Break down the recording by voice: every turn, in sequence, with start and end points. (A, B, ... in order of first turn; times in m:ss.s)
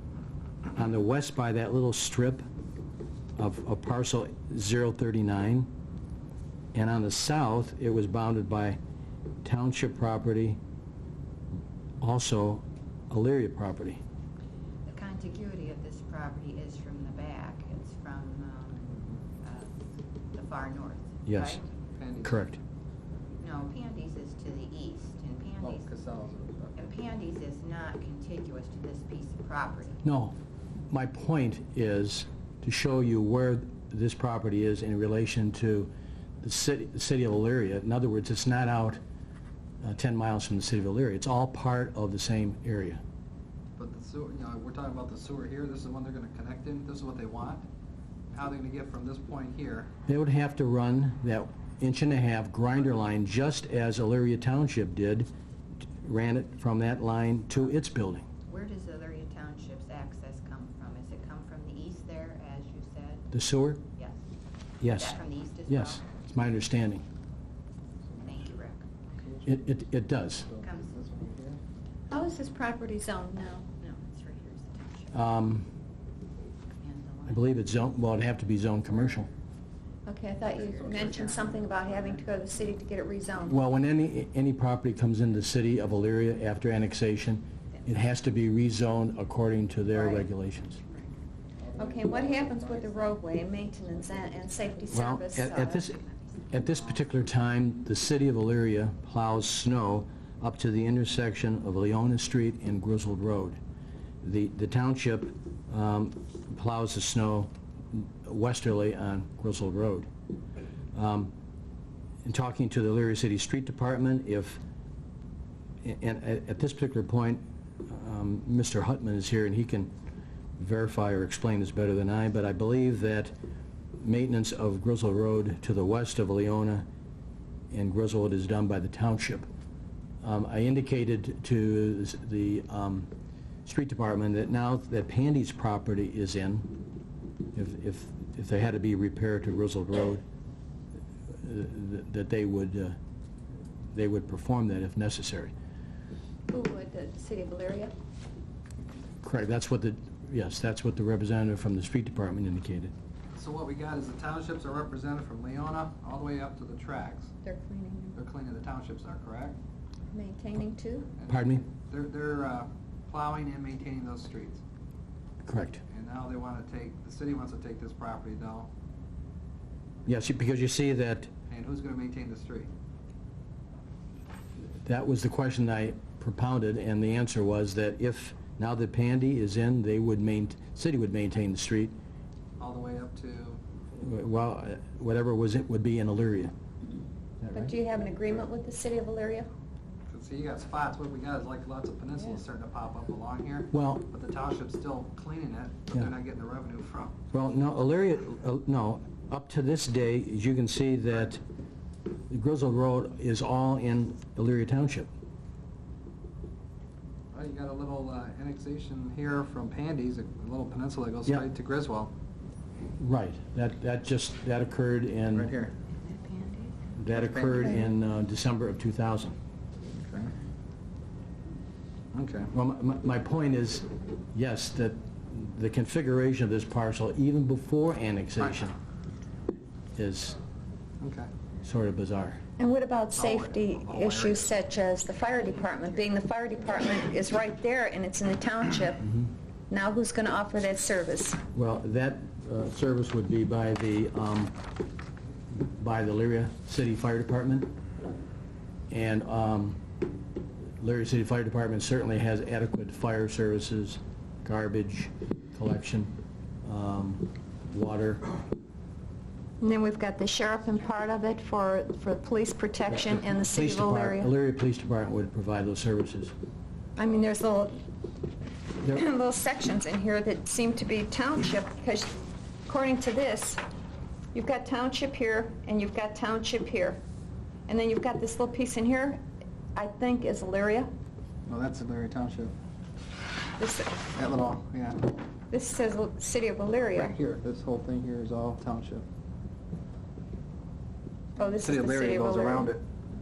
0:00.7-0:02.4 A
0:03.4-0:05.7 A
0:06.7-0:08.8 A
0:09.4-0:10.6 A
0:12.0-0:14.0 A
0:14.9-0:19.8 B
0:18.9-0:19.2 C
0:20.3-0:21.6 B
0:21.3-0:21.6 A
0:22.0-0:22.4 C
0:22.2-0:22.6 A
0:23.4-0:25.9 B
0:25.6-0:26.8 C
0:26.8-0:30.0 B
0:30.0-0:30.4 A
0:30.9-0:39.0 A
0:39.8-0:43.0 A
0:43.8-0:47.6 C
0:48.3-0:49.9 C
0:50.1-0:55.3 A
0:56.0-0:58.2 A
0:58.5-1:03.3 B
1:03.3-1:03.8 A
1:04.8-1:07.0 A
1:04.8-1:06.1 B
1:08.2-1:08.9 B
1:09.1-1:09.6 C
1:09.5-1:10.5 A
1:10.4-1:11.6 C
1:10.6-1:11.0 B
1:12.1-1:13.7 D
1:13.8-1:15.1 B
1:15.1-1:15.7 A
1:16.8-1:17.6 B
1:17.3-1:19.3 A
1:20.1-1:23.6 D
1:20.7-1:22.1 C
1:23.5-1:30.8 A
1:29.9-1:30.2 D
1:31.6-1:34.5 C
1:31.8-1:35.9 D
1:34.9-1:36.0 A
1:35.9-1:36.6 B
1:36.5-1:43.6 A
1:44.2-1:50.1 A
1:50.9-1:51.3 A
1:52.2-1:54.6 A
1:55.8-1:59.9 A
2:00.6-2:03.3 A
2:04.0-2:06.9 A
2:07.7-2:09.5 A
2:10.2-2:13.1 A
2:13.6-2:16.8 A
2:17.5-2:20.2 A
2:21.3-2:23.0 A
2:23.9-2:25.5 A
2:26.5-2:27.9 D
2:29.2-2:32.9 A
2:33.3-2:37.3 C
2:37.4-2:38.2 D
2:38.2-2:39.6 C
2:40.1-2:41.1 D
2:41.2-2:44.6 C
2:41.3-2:41.6 A
2:45.4-2:45.8 A
2:45.9-2:48.7 C
2:50.1-2:51.3 A
2:51.5-2:52.7 C
2:54.8-3:01.9 A
3:02.6-3:03.6 C
3:04.0-3:06.5 A
3:07.5-3:09.5 D
3:10.1-3:17.2 C
3:13.7-3:14.1 A
3:17.3-3:21.4 A
3:22.3-3:25.1 A
3:27.3-3:32.1 C
3:33.0-3:35.6 A
3:35.3-3:35.7 C
3:36.0-3:36.7 B
3:37.0-3:39.4 A
3:37.3-3:37.8 C
3:39.9-3:40.3 C
3:42.1-3:42.5 C
3:42.5-3:48.7 A
3:50.0-3:50.4 A
3:51.0-3:51.3 C
3:51.6-3:52.4 A
3:52.6-3:59.1 D
3:53.1-3:54.5 C
3:59.7-4:01.4 D
4:01.6-4:04.6 A
4:05.5-4:07.8 A
4:08.9-4:09.9 A
4:10.8-4:18.3 A
4:19.6-4:24.3 D
4:22.9-4:26.3 A
4:27.0-4:27.8 D
4:28.8-4:33.6 D
4:34.3-4:37.0 D
4:37.7-4:39.2 D
4:39.8-4:40.9 D
4:41.5-4:42.5 C
4:43.6-4:44.0 D
4:44.1-4:45.1 C
4:45.5-4:47.2 D
4:47.0-4:49.0 C
4:51.4-4:52.7 D
4:51.6-4:52.8 C